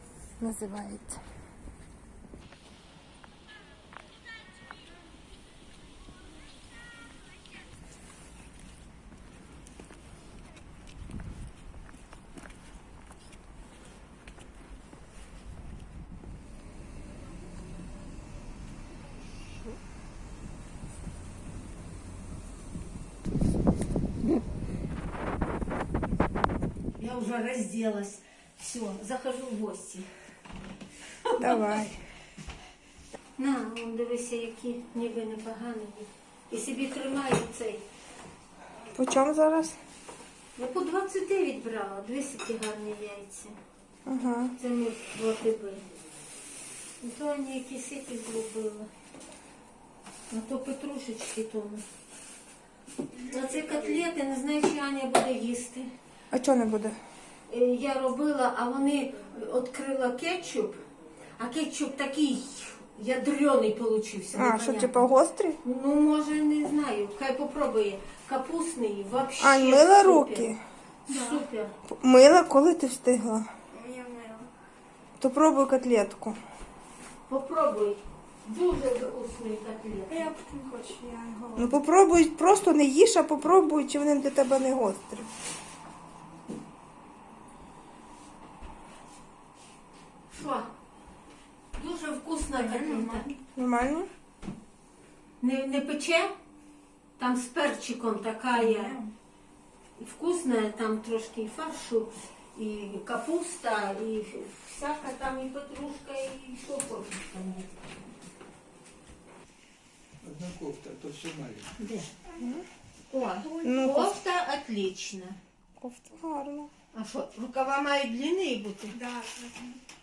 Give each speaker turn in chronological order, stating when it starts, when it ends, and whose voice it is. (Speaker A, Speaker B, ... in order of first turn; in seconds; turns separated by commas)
Speaker A: 0.4-1.2, Speaker B: 27.0-30.2, Speaker A: 31.4-32.0, Speaker B: 33.4-37.8, Speaker A: 38.9-39.8, Speaker B: 40.5-43.5, Speaker A: 44.0-44.5, Speaker B: 44.6-45.8, Speaker B: 47.0-48.9, Speaker B: 50.3-51.8, Speaker B: 53.2-55.9, Speaker C: 53.2-54.0, Speaker A: 56.3-57.0, Speaker B: 57.5-60.8, Speaker B: 61.4-65.1, Speaker A: 64.3-65.6, Speaker B: 65.6-70.5, Speaker A: 69.4-70.6, Speaker B: 71.0-71.7, Speaker D: 71.1-71.4, Speaker A: 71.9-73.5, Speaker D: 73.7-74.5, Speaker A: 75.2-76.4, Speaker B: 77.3-80.3, Speaker D: 80.1-81.7, Speaker A: 81.5-85.3, Speaker B: 90.3-90.7, Speaker B: 91.7-93.3, Speaker D: 92.6-93.4, Speaker A: 93.5-94.1, Speaker B: 95.4-96.3, Speaker B: 97.2-99.0, Speaker D: 98.5-99.1, Speaker B: 100.0-107.7, Speaker C: 110.2-111.7, Speaker B: 111.8-112.1, Speaker A: 112.4-112.6, Speaker B: 113.1-115.4, Speaker D: 113.3-113.6, Speaker A: 113.6-114.1, Speaker A: 115.8-116.7, Speaker B: 116.9-119.0, Speaker D: 118.9-119.8